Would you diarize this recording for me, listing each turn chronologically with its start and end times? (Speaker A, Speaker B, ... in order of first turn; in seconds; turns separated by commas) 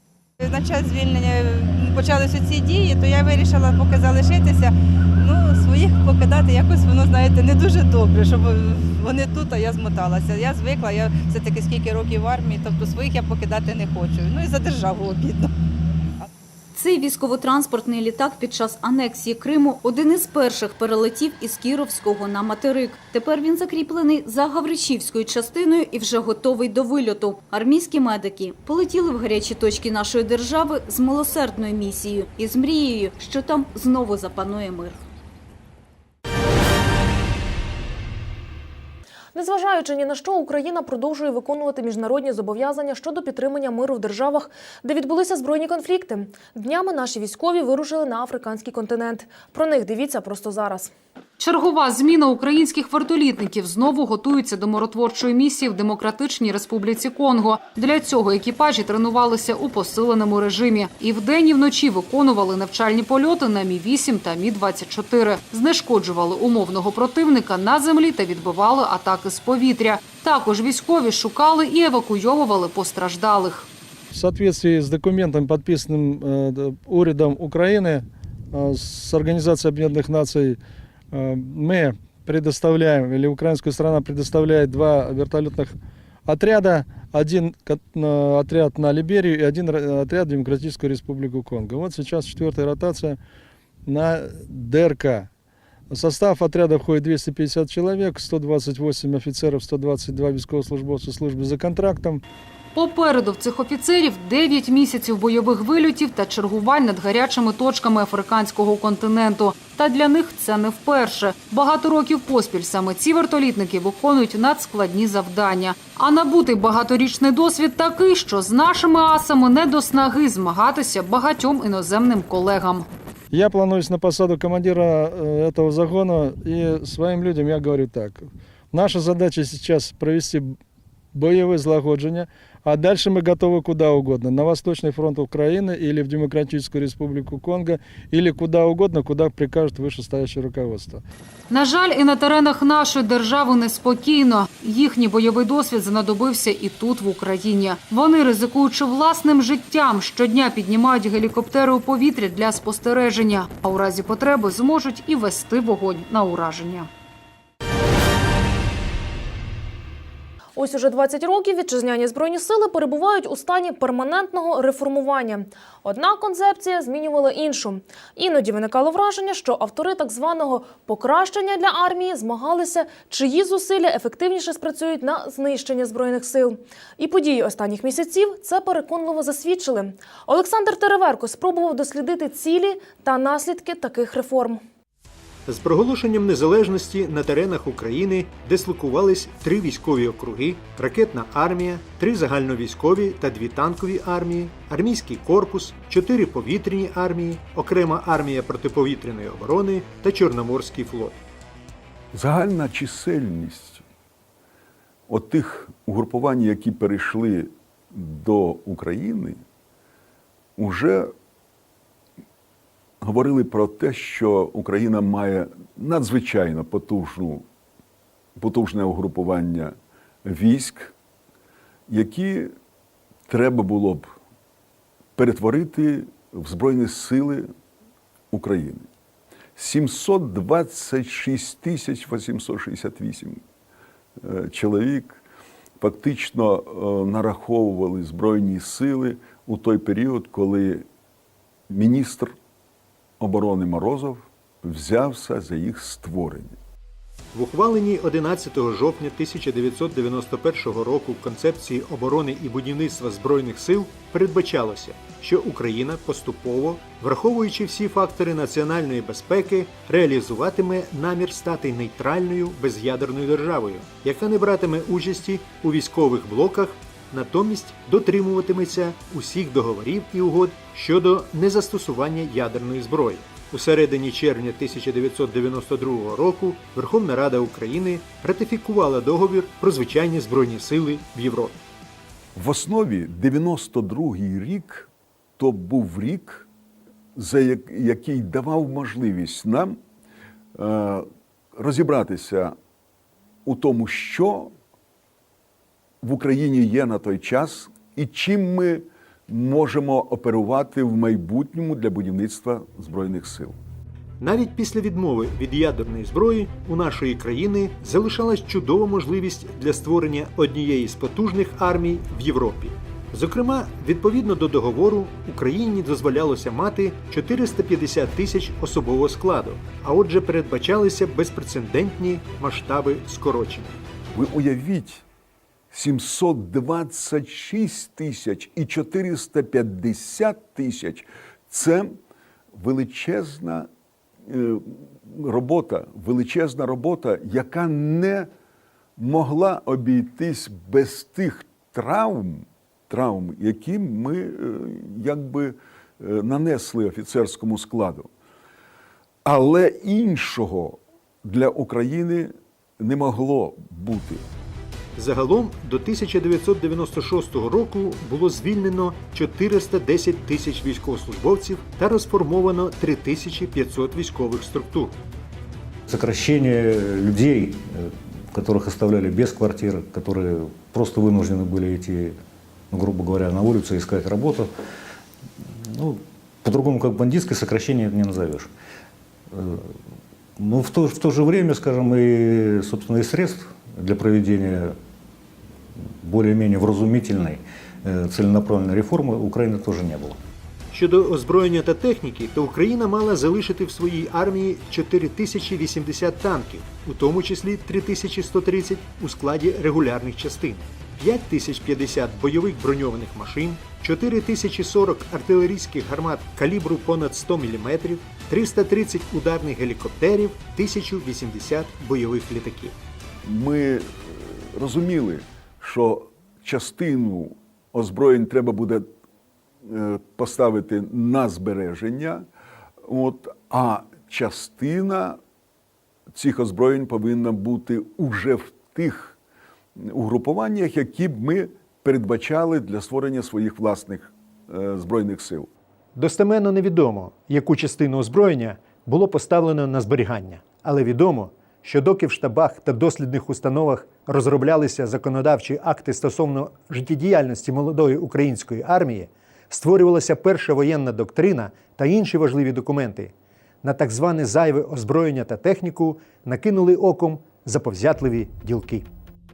Speaker A: 0.4-15.5, Speaker B: 16.7-35.0, Speaker C: 39.3-50.9, Speaker D: 51.4-73.7, Speaker E: 74.1-80.6, Speaker E: 81.1-93.2, Speaker E: 93.9-95.3, Speaker E: 95.9-102.2, Speaker D: 102.8-122.9, Speaker E: 123.3-130.6, Speaker E: 131.1-141.0, Speaker D: 141.5-156.9, Speaker C: 160.6-184.6, Speaker F: 185.5-201.2, Speaker G: 202.1-203.8, Speaker G: 205.1-209.4, Speaker G: 210.6-211.1, Speaker G: 213.0-217.5, Speaker G: 218.4-220.9, Speaker G: 221.9-222.5, Speaker G: 223.3-224.2, Speaker G: 225.2-227.5, Speaker G: 228.3-228.9, Speaker G: 229.6-233.4, Speaker G: 234.2-235.2, Speaker G: 235.8-240.8, Speaker G: 241.7-242.4, Speaker G: 243.2-246.6, Speaker F: 247.3-281.6, Speaker G: 282.4-286.5, Speaker G: 287.1-289.8, Speaker G: 290.6-292.6, Speaker G: 293.4-294.5, Speaker G: 296.0-303.6, Speaker F: 304.2-323.8, Speaker G: 324.1-325.0, Speaker G: 325.7-332.0, Speaker G: 332.5-333.7, Speaker G: 334.2-338.3, Speaker G: 339.0-348.1, Speaker G: 349.2-354.2, Speaker F: 355.0-365.0, Speaker H: 365.9-372.2, Speaker H: 372.7-374.5, Speaker H: 375.6-378.5, Speaker H: 379.3-379.8, Speaker H: 380.4-384.8, Speaker H: 386.0-390.2, Speaker F: 390.7-412.8, Speaker G: 413.2-418.9, Speaker G: 419.6-422.3, Speaker G: 422.8-425.2, Speaker G: 426.1-429.2, Speaker G: 429.8-435.5, Speaker F: 435.9-458.9